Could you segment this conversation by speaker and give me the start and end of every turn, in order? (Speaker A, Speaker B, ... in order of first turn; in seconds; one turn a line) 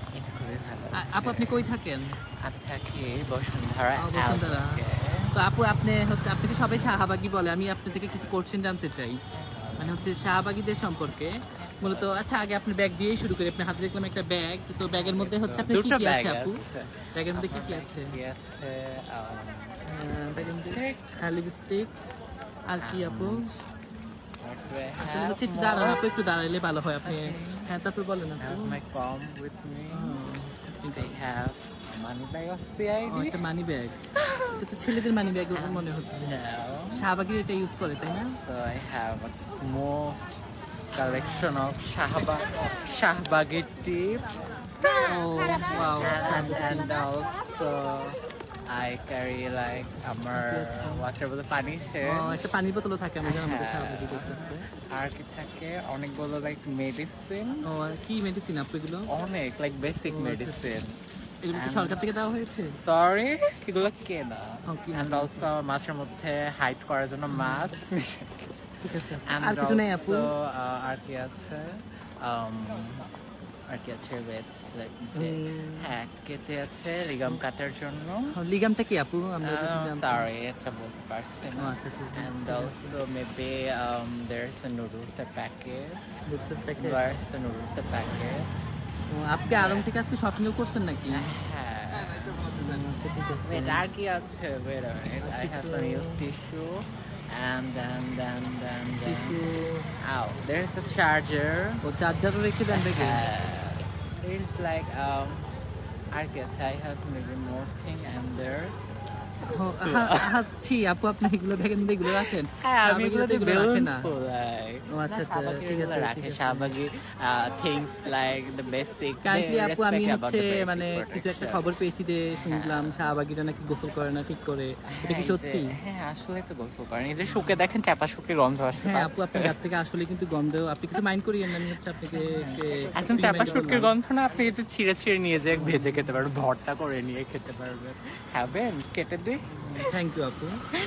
Speaker A: 0.1-1.7
Speaker B: 1.0-2.1
Speaker A: 2.4-5.3
Speaker B: 4.0-4.8
Speaker B: 5.3-9.2
Speaker A: 9.3-10.2
Speaker B: 9.8-18.1
Speaker A: 11.6-12.1
Speaker A: 14.9-21.1
Speaker B: 19.9-21.9
Speaker B: 22.7-23.4
Speaker A: 22.8-23.7
Speaker A: 24.4-26.0
Speaker B: 25.0-28.8
Speaker A: 27.0-27.7
Speaker A: 28.4-30.2
Speaker B: 29.9-31.1
Speaker A: 30.9-33.4
Speaker B: 33.1-34.0
Speaker A: 34.1-37.0
Speaker B: 34.5-36.4
Speaker B: 36.9-38.4
Speaker A: 38.0-44.3
Speaker B: 41.0-41.6
Speaker B: 45.0-46.9
Speaker A: 45.7-52.5
Speaker B: 50.3-51.0
Speaker B: 52.0-54.7
Speaker A: 53.2-57.6
Speaker B: 57.6-59.1
Speaker A: 59.1-61.0
Speaker B: 60.1-60.8
Speaker B: 61.4-62.8
Speaker A: 61.5-62.0
Speaker A: 62.7-68.5
Speaker B: 64.7-65.5
Speaker B: 67.3-67.8
Speaker B: 68.8-70.3
Speaker A: 69.2-73.1
Speaker A: 73.7-78.3
Speaker B: 75.1-75.9
Speaker B: 78.3-80.3
Speaker A: 79.4-88.7
Speaker B: 81.6-83.0
Speaker B: 86.3-87.0
Speaker B: 89.1-91.2
Speaker A: 89.4-90.4
Speaker A: 91.1-92.6
Speaker B: 92.5-93.9
Speaker A: 93.4-99.4
Speaker B: 95.2-96.2
Speaker B: 99.0-99.9
Speaker A: 100.0-101.8
Speaker B: 101.8-103.2
Speaker A: 102.7-105.5
Speaker A: 106.1-108.9
Speaker B: 109.5-114.1
Speaker A: 109.8-110.4
Speaker A: 112.1-121.7
Speaker B: 114.9-116.7
Speaker B: 119.2-125.8
Speaker A: 122.4-123.0
Speaker A: 124.9-129.5
Speaker B: 127.2-127.6
Speaker B: 128.8-133.9
Speaker A: 131.5-139.9
Speaker B: 135.5-136.3
Speaker B: 139.6-140.6